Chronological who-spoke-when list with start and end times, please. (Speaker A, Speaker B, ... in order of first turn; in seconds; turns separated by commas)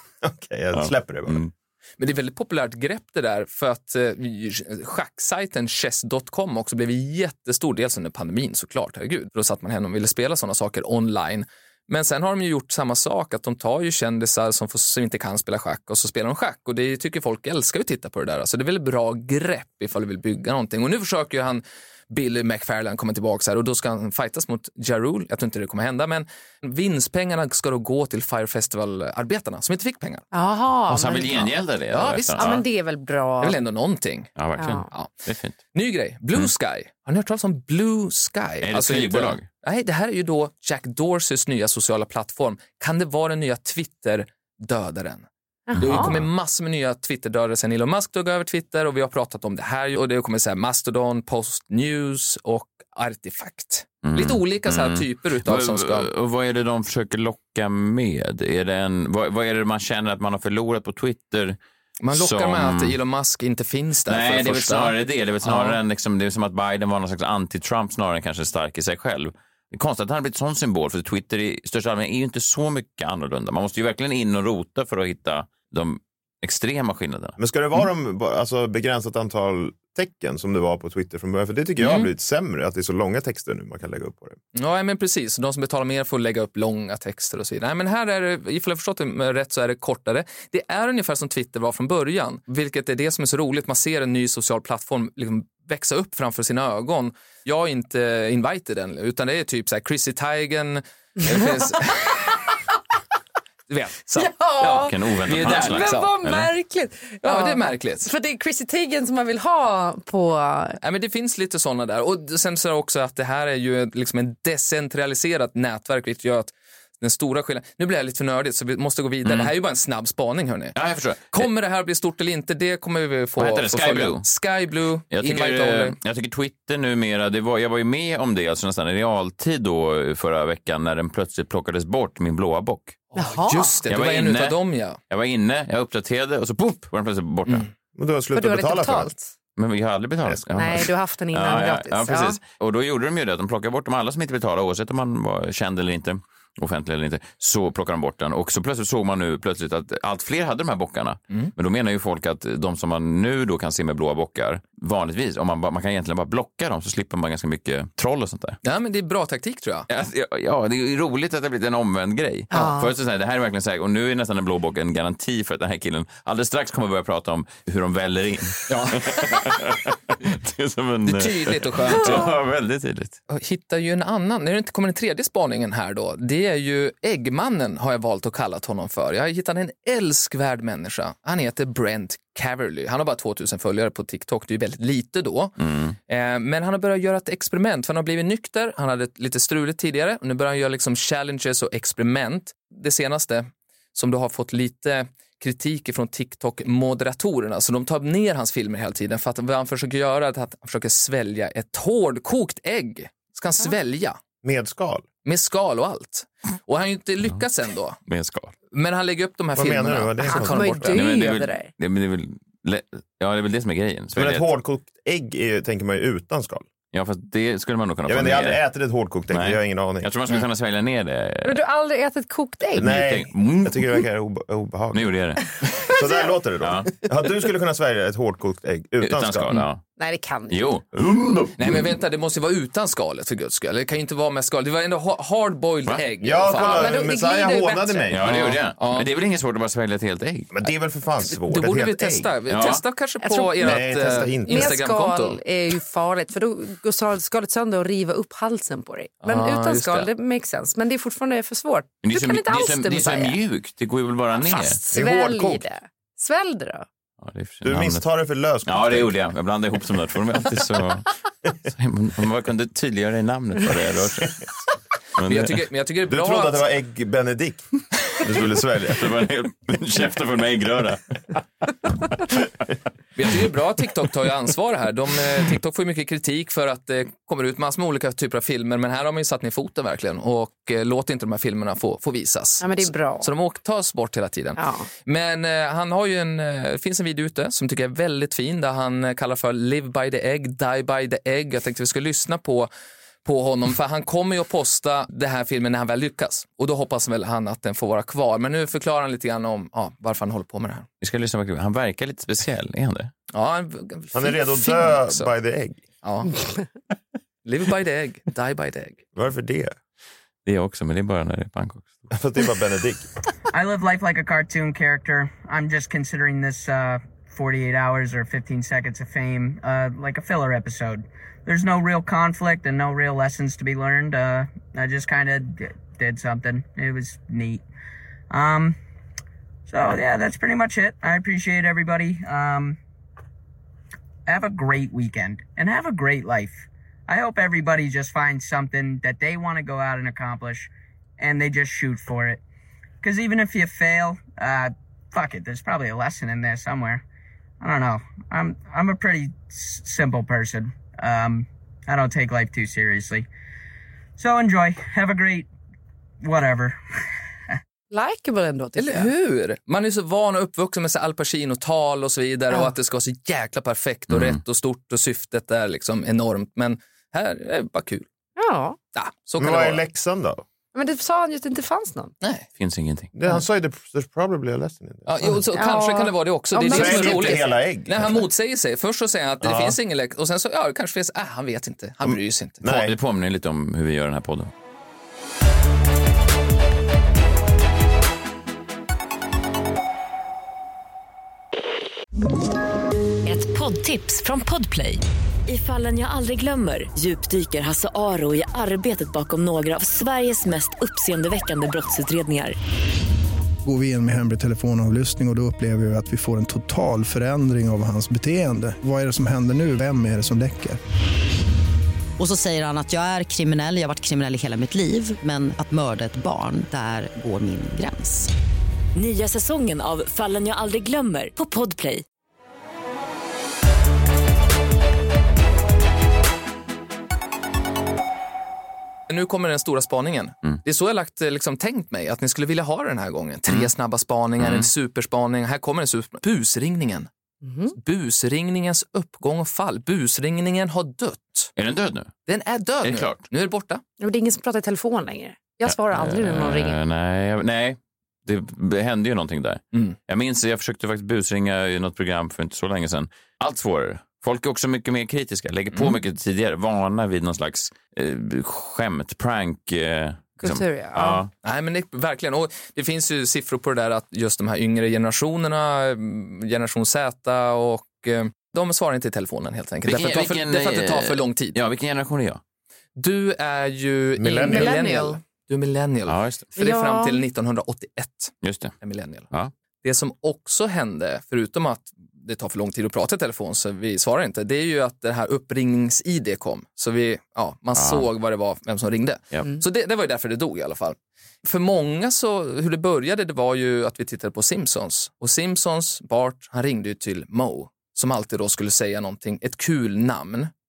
Speaker A: 0.2-1.4, Speaker B: 0.7-1.5, Speaker C: 2.0-30.2, Speaker D: 30.3-31.5, Speaker B: 30.9-32.6, Speaker C: 31.9-32.6, Speaker D: 32.4-33.6, Speaker C: 33.4-35.1, Speaker B: 34.4-35.6, Speaker D: 34.6-34.9, Speaker C: 35.7-56.1, Speaker B: 38.6-39.5, Speaker D: 45.7-46.2, Speaker B: 45.8-46.2, Speaker B: 54.0-61.6, Speaker C: 62.0-65.8, Speaker B: 62.1-62.9, Speaker B: 64.1-77.3, Speaker A: 77.4-84.4, Speaker C: 81.8-82.1, Speaker C: 84.5-102.3, Speaker C: 103.7-106.2, Speaker D: 104.2-110.8, Speaker B: 104.8-106.5, Speaker C: 107.2-108.1, Speaker C: 110.8-120.8, Speaker B: 119.2-119.5, Speaker B: 120.7-121.5, Speaker C: 121.3-126.0, Speaker B: 123.4-124.2, Speaker B: 125.1-133.0, Speaker C: 133.1-135.0, Speaker D: 133.1-133.8, Speaker B: 133.9-134.6, Speaker B: 135.1-137.7, Speaker A: 137.9-139.1, Speaker D: 138.3-139.3, Speaker B: 139.6-158.6, Speaker A: 140.2-140.7, Speaker D: 140.5-142.4, Speaker C: 158.6-159.9, Speaker B: 159.9-173.2, Speaker D: 162.5-162.9, Speaker C: 168.7-169.3, Speaker C: 171.0-172.3, Speaker D: 171.9-172.3, Speaker C: 173.3-185.5, Speaker B: 185.6-185.9, Speaker C: 186.1-204.2, Speaker A: 204.4-205.1, Speaker C: 205.2-208.0, Speaker B: 208.1-208.5, Speaker C: 208.7-211.0, Speaker A: 209.6-210.9, Speaker D: 210.2-211.7, Speaker B: 210.8-214.5, Speaker A: 214.1-216.7, Speaker B: 216.9-218.6, Speaker A: 218.1-220.1, Speaker B: 219.3-221.6, Speaker D: 221.4-222.9, Speaker B: 222.8-224.0, Speaker A: 222.8-225.1, Speaker B: 224.9-225.4, Speaker A: 225.8-229.6, Speaker D: 226.0-226.3, Speaker B: 226.6-226.9, Speaker B: 229.0-229.8, Speaker D: 230.0-230.6, Speaker B: 230.5-231.9, Speaker C: 231.6-237.1, Speaker A: 236.2-238.6, Speaker D: 236.5-238.1, Speaker B: 238.1-240.6, Speaker C: 238.2-239.1, Speaker A: 240.5-242.3, Speaker C: 241.2-245.4, Speaker B: 242.5-242.8, Speaker D: 243.2-253.4, Speaker A: 243.6-244.8, Speaker C: 249.2-250.1, Speaker B: 252.0-254.8, Speaker D: 254.3-256.9, Speaker A: 254.9-255.6, Speaker B: 257.2-258.0, Speaker A: 257.6-259.1, Speaker B: 258.6-261.1, Speaker B: 261.7-264.4, Speaker B: 265.2-265.6, Speaker C: 265.2-266.6, Speaker A: 266.1-267.6, Speaker A: 268.2-269.1, Speaker B: 268.3-271.0, Speaker C: 273.1-292.7, Speaker D: 282.6-283.3, Speaker D: 284.6-284.9, Speaker C: 293.2-300.9, Speaker B: 301.0-303.1, Speaker C: 303.3-305.3, Speaker A: 304.1-305.8, Speaker C: 306.0-306.3, Speaker C: 307.4-309.0, Speaker A: 309.1-309.7, Speaker B: 310.4-312.0, Speaker A: 312.1-313.1, Speaker E: 313.5-327.6, Speaker E: 328.3-328.8, Speaker E: 329.7-332.8, Speaker E: 334.3-342.4, Speaker E: 343.0-347.0, Speaker E: 347.6-353.3, Speaker E: 354.2-355.5, Speaker E: 356.2-356.8, Speaker D: 357.9-359.1, Speaker C: 358.8-368.1, Speaker B: 364.1-364.4, Speaker D: 368.4-368.8, Speaker C: 368.9-369.8, Speaker A: 369.4-370.4, Speaker D: 370.7-372.1, Speaker C: 372.2-372.5, Speaker B: 372.6-373.1, Speaker A: 373.1-375.4, Speaker C: 375.1-382.7, Speaker D: 375.5-377.4, Speaker A: 376.7-378.3, Speaker A: 379.4-379.8, Speaker A: 382.0-382.9, Speaker B: 382.6-384.5, Speaker F: 393.2-402.6, Speaker G: 403.6-410.8, Speaker H: 412.2-418.3, Speaker F: 418.9-422.0, Speaker C: 429.1-437.1, Speaker B: 434.4-434.7, Speaker D: 437.4-437.8, Speaker C: 437.7-441.5, Speaker B: 441.6-442.1, Speaker C: 442.3-443.8, Speaker B: 442.8-443.2, Speaker D: 444.0-446.8, Speaker B: 445.6-461.3, Speaker C: 455.7-456.0, Speaker D: 460.4-461.2, Speaker C: 461.4-471.6, Speaker B: 469.8-472.4, Speaker C: 472.9-479.3, Speaker A: 474.2-474.8, Speaker D: 474.4-475.2, Speaker B: 476.1-476.5, Speaker D: 476.6-477.2, Speaker B: 478.4-478.7, Speaker C: 479.8-500.5, Speaker B: 487.7-488.1